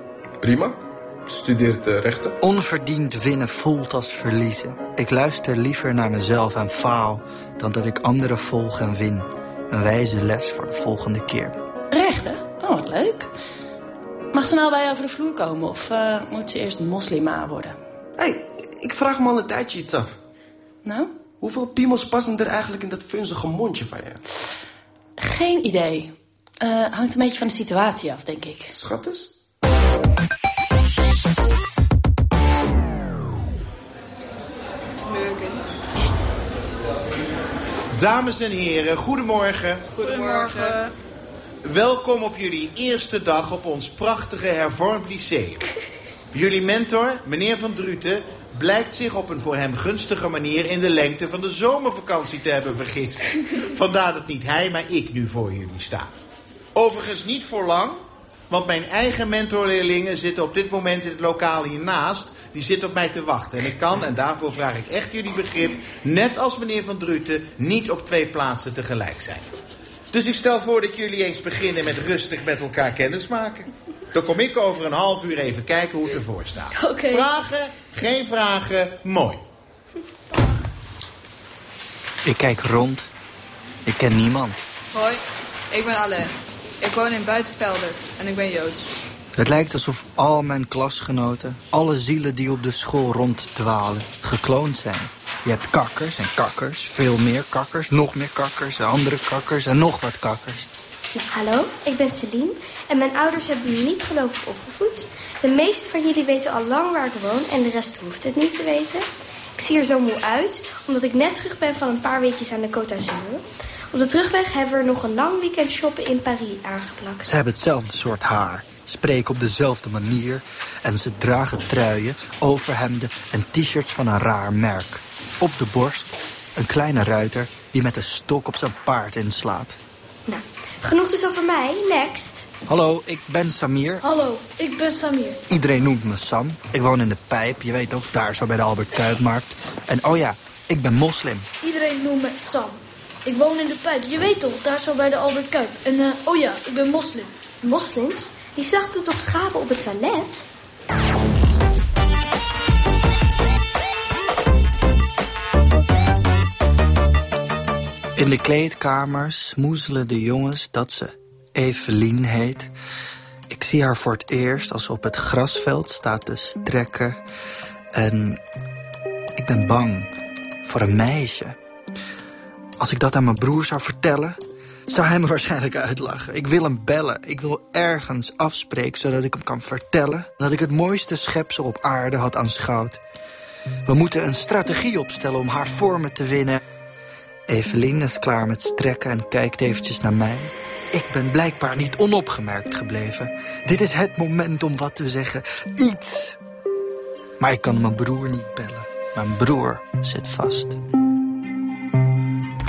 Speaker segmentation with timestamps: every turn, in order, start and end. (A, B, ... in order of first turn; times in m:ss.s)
0:00.4-0:00.8 A
0:01.3-0:02.4 A
0:02.4-0:11.6 B
0:11.9-0:13.3 C
0:14.3-0:17.8 C
0:18.2-0:20.2 A
0:20.8-0:21.3 C
0:21.4-0:24.2 A
0:25.2-0:28.7 C
0:28.7-0:29.3 A
0:35.0-0:35.6 D
0:37.9-0:39.9 E
0:39.9-0:40.8 D
0:40.0-0:40.8 F
0:41.6-0:45.7 E
0:46.3-0:56.1 E
0:56.7-1:09.5 E
1:10.1-1:19.4 E
1:16.7-1:17.3 F
1:22.2-1:23.1 B
1:23.8-1:24.6 B
1:24.9-1:28.9 D
1:29.4-1:40.7 B
1:41.1-1:49.0 G
1:49.6-1:57.3 G
1:57.2-2:09.8 B
2:10.3-2:12.5 G
2:12.7-2:14.0 B
2:14.0-2:15.4 F
2:15.5-2:21.5 B
2:21.6-2:27.3 F
2:27.6-2:30.4 G
2:38.2-2:42.7 B
2:43.5-2:47.2 B
2:47.9-2:48.4 B
2:49.4-2:50.1 B
2:50.6-2:51.6 B
2:52.8-3:03.0 B
3:03.8-3:06.6 B
3:07.5-3:16.4 B
3:17.4-3:20.8 B